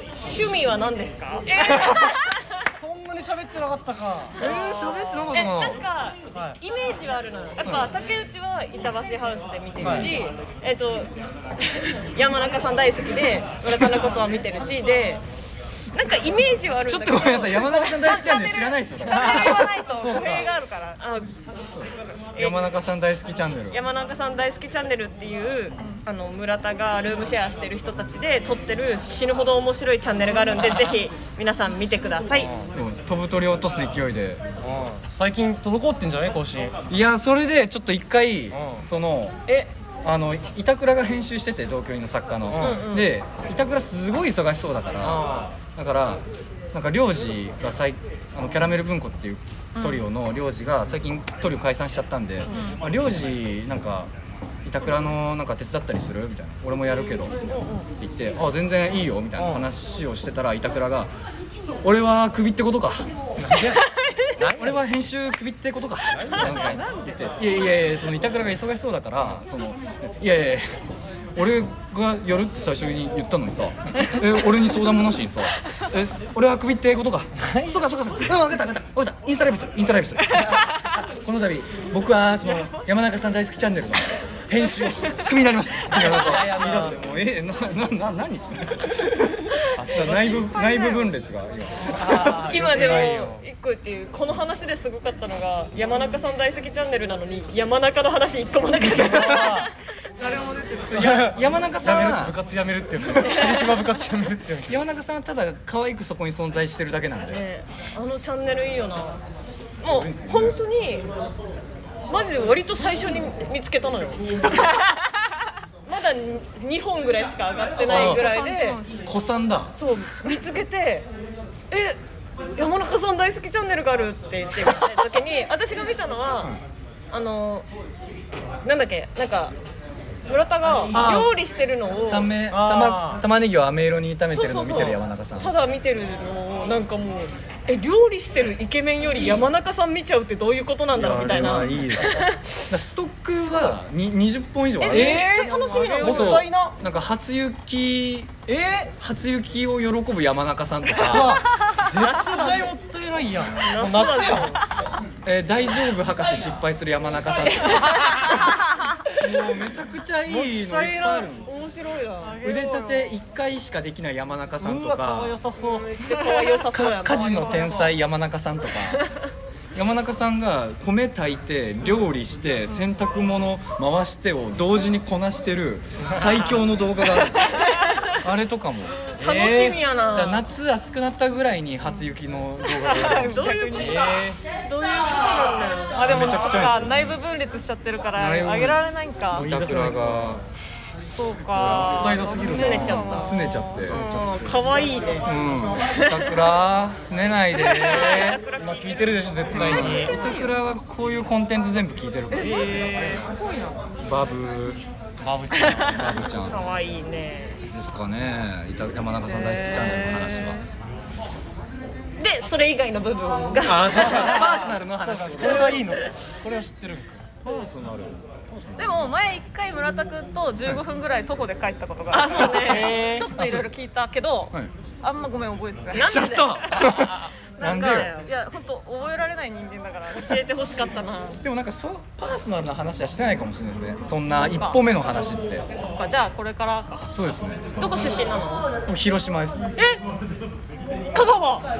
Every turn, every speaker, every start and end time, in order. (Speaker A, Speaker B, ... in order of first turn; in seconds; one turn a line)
Speaker A: 0.2-2.3
Speaker B: 1.6-2.1
Speaker C: 2.6-4.4
Speaker B: 4.4-5.8
Speaker A: 4.4-15.2
Speaker C: 6.3-6.6
Speaker B: 7.6-7.9
Speaker C: 9.8-10.1
Speaker B: 9.8-10.1
Speaker A: 15.9-18.2
Speaker B: 16.9-19.8
Speaker D: 17.9-21.0
Speaker C: 19.2-20.5
Speaker A: 21.0-21.4
Speaker B: 21.7-23.8
Speaker A: 22.3-22.7
Speaker A: 23.7-32.5
Speaker C: 32.4-32.7
Speaker B: 32.7-34.4
Speaker C: 34.6-36.8
Speaker B: 36.9-39.4
Speaker C: 38.5-38.9
Speaker B: 40.0-54.1
Speaker C: 42.5-42.9
Speaker A: 42.6-43.1
Speaker C: 45.0-45.5
Speaker D: 49.8-50.1
Speaker D: 52.5-52.8
Speaker B: 54.6-61.1
Speaker A: 57.5-57.9
Speaker C: 59.4-59.6
Speaker B: 61.8-63.1
Speaker C: 63.4-64.8
Speaker B: 64.5-70.8
Speaker C: 66.1-66.8
Speaker B: 71.3-93.0
Speaker C: 77.4-77.8
Speaker D: 80.4-80.6
Speaker C: 85.9-87.0
Speaker C: 89.8-90.4
Speaker D: 90.0-91.2
Speaker C: 91.9-93.5
Speaker A: 92.5-99.7
Speaker C: 98.8-99.7
Speaker B: 98.9-99.5
Speaker D: 100.2-101.2
Speaker C: 100.8-104.8
Speaker B: 100.9-102.4
Speaker B: 103.0-103.4
Speaker B: 104.7-107.4
Speaker A: 107.3-109.2
Speaker A: 109.8-111.1
Speaker B: 109.8-110.6
Speaker A: 112.1-114.5
Speaker A: 115.8-118.8
Speaker D: 117.8-119.3
Speaker B: 117.9-118.3
Speaker B: 119.0-119.8
Speaker A: 119.8-121.1
Speaker A: 121.7-122.0
Speaker A: 122.6-126.6
Speaker A: 127.1-127.7
Speaker A: 128.6-129.6
Speaker A: 130.3-132.3
Speaker B: 130.9-131.4
Speaker B: 132.1-135.6
Speaker C: 132.5-133.2
Speaker A: 134.3-142.4
Speaker B: 140.9-145.3
Speaker A: 144.8-146.5
Speaker C: 144.9-146.8
Speaker B: 146.0-148.4
Speaker C: 148.5-148.9
Speaker B: 149.0-151.5
Speaker C: 151.0-154.6
Speaker A: 151.8-152.7
Speaker A: 153.5-154.9
Speaker B: 155.2-158.2
Speaker C: 157.7-158.3
Speaker B: 159.1-161.5
Speaker C: 160.3-161.3
Speaker A: 161.4-162.5
Speaker D: 162.3-163.2
Speaker B: 162.4-165.4
Speaker C: 164.6-165.9
Speaker A: 165.6-167.9
Speaker D: 166.1-167.9
Speaker B: 166.7-169.1
Speaker B: 169.8-179.0
Speaker A: 179.1-180.4
Speaker C: 179.2-179.8
Speaker B: 180.1-183.7
Speaker D: 182.8-184.3
Speaker A: 183.0-186.6
Speaker C: 183.8-184.4
Speaker D: 185.9-189.5
Speaker B: 186.0-187.2
Speaker B: 188.2-188.8
Speaker C: 189.3-190.5
Speaker B: 189.3-190.4
Speaker D: 191.1-194.2
Speaker C: 191.5-193.0
Speaker B: 191.7-194.0
Speaker A: 192.2-196.3
Speaker C: 193.9-194.7
Speaker B: 195.2-198.4
Speaker A: 197.5-200.4
Speaker C: 198.6-200.2
Speaker B: 199.5-203.0
Speaker D: 199.5-200.5
Speaker D: 202.3-203.8
Speaker A: 202.3-203.3
Speaker B: 204.0-204.8
Speaker C: 205.2-206.2
Speaker B: 205.9-206.6
Speaker A: 206.2-207.7
Speaker B: 207.7-210.6
Speaker D: 209.3-210.6
Speaker A: 212.2-214.5
Speaker B: 213.6-215.9
Speaker C: 214.0-217.3
Speaker B: 217.4-219.1
Speaker D: 218.8-230.5
Speaker A: 222.1-223.1
Speaker B: 222.4-223.7
Speaker C: 222.7-223.4
Speaker A: 225.9-228.3
Speaker B: 226.0-228.1
Speaker A: 230.1-231.4
Speaker B: 231.4-235.7
Speaker D: 234.3-234.8
Speaker D: 235.7-237.1
Speaker B: 237.1-237.6
Speaker A: 237.8-238.7
Speaker B: 238.9-239.7
Speaker A: 241.1-241.7